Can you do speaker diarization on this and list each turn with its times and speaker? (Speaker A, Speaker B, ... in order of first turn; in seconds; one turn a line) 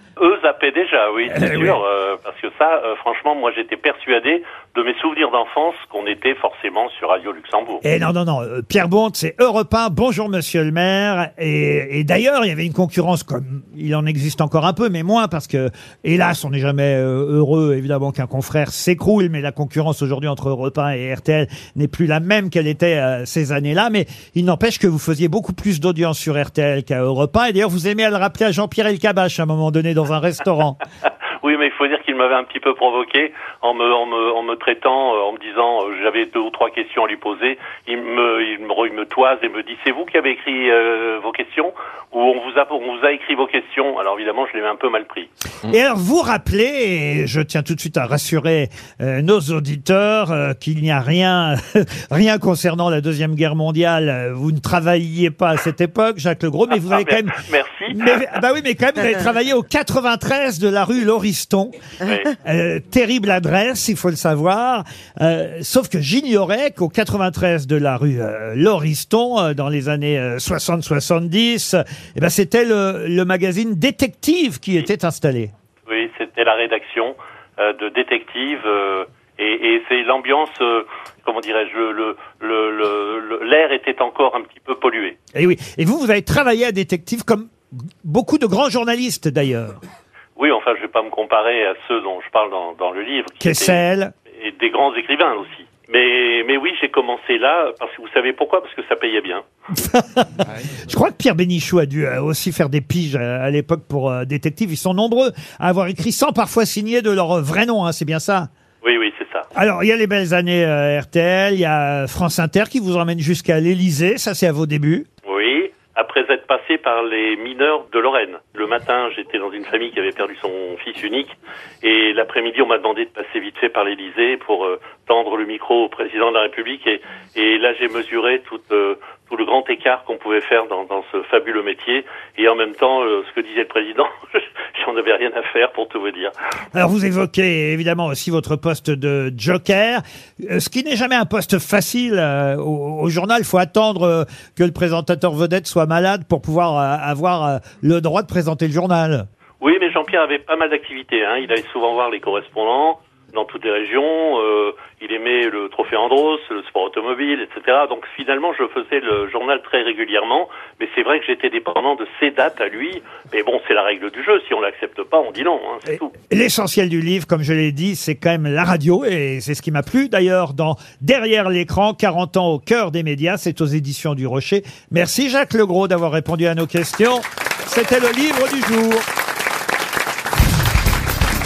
Speaker A: 0.2-7.8
Speaker B: 1.2-1.8
Speaker B: 7.8-30.8
Speaker A: 31.4-45.3
Speaker B: 45.7-61.8
Speaker A: 56.7-58.2
Speaker A: 62.0-62.3
Speaker B: 62.4-75.5
Speaker A: 75.9-85.2
Speaker B: 85.3-89.8
Speaker A: 90.4-99.4
Speaker B: 93.4-94.1
Speaker B: 99.7-108.5
Speaker A: 108.8-109.5
Speaker B: 109.5-115.1
Speaker A: 115.2-136.3
Speaker B: 136.7-149.3
Speaker A: 149.6-166.1
Speaker B: 166.3-179.0